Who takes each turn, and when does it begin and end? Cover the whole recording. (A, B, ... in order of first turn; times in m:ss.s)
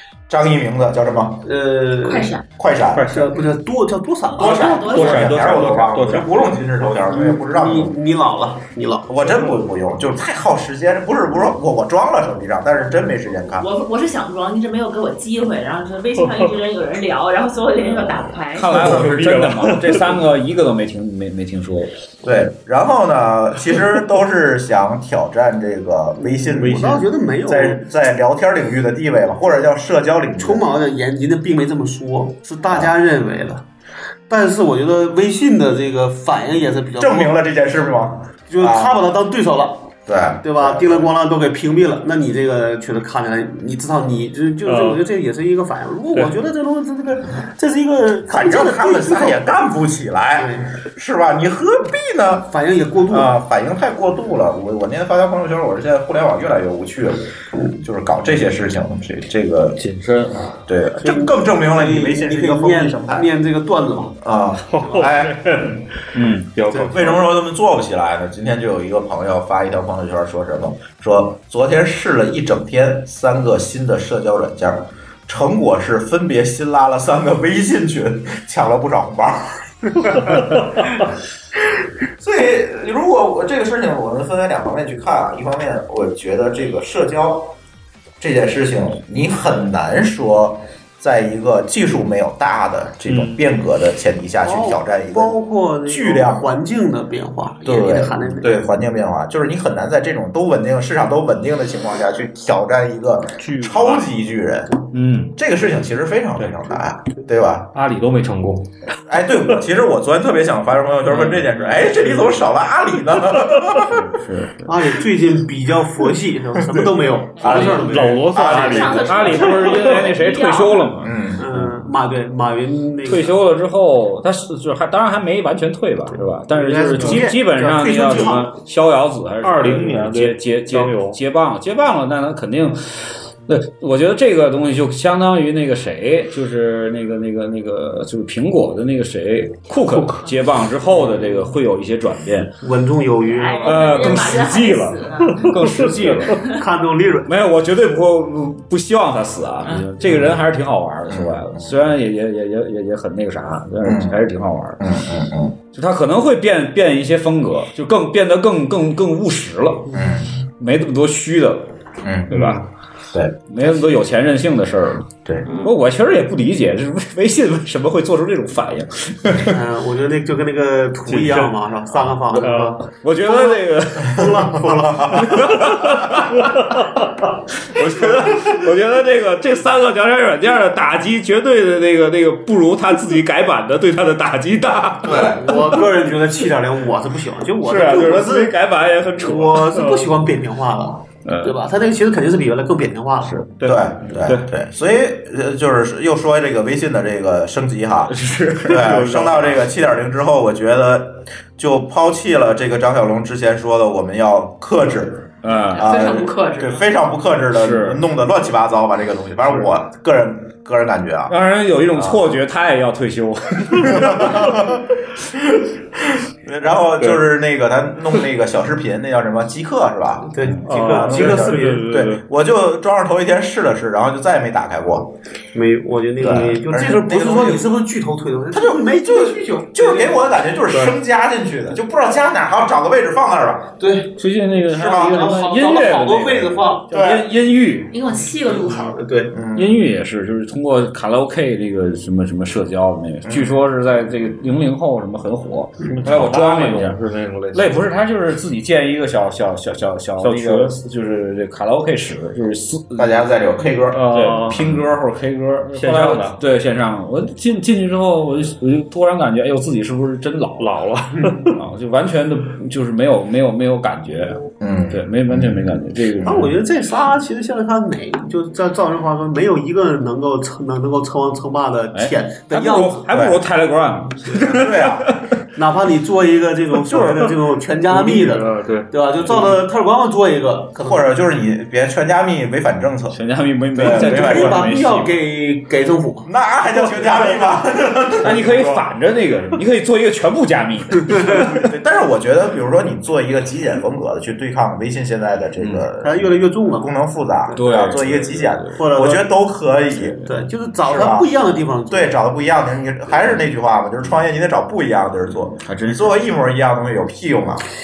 0:00.3-0:01.5 A
0:01.4-0:02.3 B
0:02.0-0:02.4 C
0:02.6-0:03.3 A
0:02.9-0:03.5 D
0:03.1-0:05.3 B
0:04.4-0:08.0 A
0:04.4-0:05.2 C
0:04.9-0:06.4 D
0:05.1-0:06.2 E
0:06.9-0:09.2 B
0:09.1-0:13.7 A
0:13.6-0:18.8 C
0:18.5-0:21.9 E
0:18.7-0:20.2 D
0:22.2-0:30.6 A
0:26.2-0:27.8 B
0:26.6-0:27.0 D
0:30.4-0:33.6 B
0:34.3-0:37.4 B
0:37.0-0:39.0 A
0:38.5-0:49.4 B
0:40.0-0:41.1 A
0:44.6-0:45.0 D
0:48.2-0:52.5 A
0:50.4-0:50.7 B
0:52.5-0:53.3 B
0:53.1-0:59.8 A
0:59.8-1:00.6 D
1:00.6-1:03.3 A
1:01.0-1:04.2 B
1:04.2-1:05.6 A
1:04.7-1:07.2 D
1:06.1-1:06.5 E
1:06.7-1:20.4 A
1:22.2-1:27.6 A
1:28.2-1:36.5 A
1:33.1-1:33.4 D
1:34.4-1:38.6 B
1:37.6-1:47.7 A
1:43.4-1:44.1 D
1:44.9-1:45.3 E
1:46.4-1:46.7 D
1:47.7-1:48.7 D
1:49.1-1:54.0 A
1:51.1-1:52.3 D
1:51.2-1:51.8 E
1:53.9-1:54.8 E
1:54.6-1:58.6 B
1:56.6-1:59.3 A
1:57.4-2:00.9 C
1:57.4-2:00.0 D
1:59.0-2:01.9 E
2:01.0-2:01.4 A
2:01.4-2:03.4 B
2:03.0-2:22.6 E
2:06.5-2:08.5 B
2:07.0-2:07.2 D
2:09.4-2:11.2 D
2:19.7-2:20.2 D
2:21.0-2:21.4 D
2:22.6-2:24.2 B
2:23.3-2:25.6 C
2:23.6-2:26.4 E
2:25.4-2:26.2 D
2:25.7-2:27.3 B
2:26.3-2:26.6 C
2:27.2-2:34.8 E
2:30.0-2:30.4 A
2:31.1-2:31.8 A
2:33.8-2:34.2 A
2:34.8-2:35.6 A
2:35.7-2:39.9 E
2:39.9-2:40.3 A
2:40.6-2:41.7 E
2:42.0-2:42.4 A
2:42.3-2:42.6 E
2:42.3-2:42.6 D
2:43.1-2:43.4 A
2:43.5-2:49.5 E
2:49.4-2:55.6 B
2:51.1-2:51.5 D
2:52.4-2:52.7 D
2:53.0-2:54.5 E
2:54.1-2:55.4 A
2:55.2-2:56.4 E
2:57.6-3:05.8 E
3:05.0-3:05.4 A
3:05.3-3:08.5 B
3:07.6-3:09.8 E
3:09.2-3:13.4 B
3:09.7-3:10.1 D
3:13.6-3:14.5 D
3:13.6-3:31.3 A
3:18.1-3:19.3 E
3:18.8-3:19.4 D
3:25.4-3:26.0 E
3:25.7-3:26.8 C
3:27.5-3:28.0 E
3:31.3-3:34.6 E
3:31.9-3:32.2 A
3:33.7-3:34.8 A
3:35.3-3:35.7 A
3:36.2-3:45.1 A
3:40.3-3:41.9 B
3:40.6-3:42.2 D
3:45.5-3:50.2 B
3:46.2-3:47.7 A
3:46.2-3:46.5 D
3:48.5-3:53.7 A
3:53.8-3:54.1 B
3:54.2-3:57.9 E
3:54.7-3:55.3 A
3:54.9-3:56.9 B
3:56.9-3:57.3 A
3:57.9-3:59.0 C
3:58.6-3:59.3 B
3:59.3-3:59.9 A
3:59.6-4:07.0 E
4:03.2-4:03.6 A
4:05.9-4:07.8 D
4:07.5-4:13.2 E
4:10.2-4:10.8 D
4:13.0-4:14.8 A
4:13.9-4:14.6 D
4:14.1-4:20.8 E
4:15.7-4:16.4 D
4:20.6-4:21.6 D
4:21.5-4:24.4 E
4:24.6-4:26.5 A
4:24.9-4:26.5 E
4:26.2-4:33.1 B
4:31.9-4:35.3 E
4:33.1-4:33.4 A
4:34.5-4:35.1 A
4:35.5-4:41.0 B
4:37.9-4:39.6 D
4:40.8-4:43.2 A
4:43.1-4:45.2 E
4:43.7-4:44.7 A
4:43.8-4:46.3 B
4:46.2-4:48.4 A
4:48.2-4:51.7 E
4:48.4-4:48.8 D
4:51.6-5:00.2 A
4:55.6-4:55.8 E
4:56.0-4:59.3 B
4:57.6-4:58.8 E
4:59.9-5:00.3 E
5:00.2-5:02.2 B
5:00.8-5:01.3 A
5:01.9-5:07.6 A
5:05.5-5:06.2 E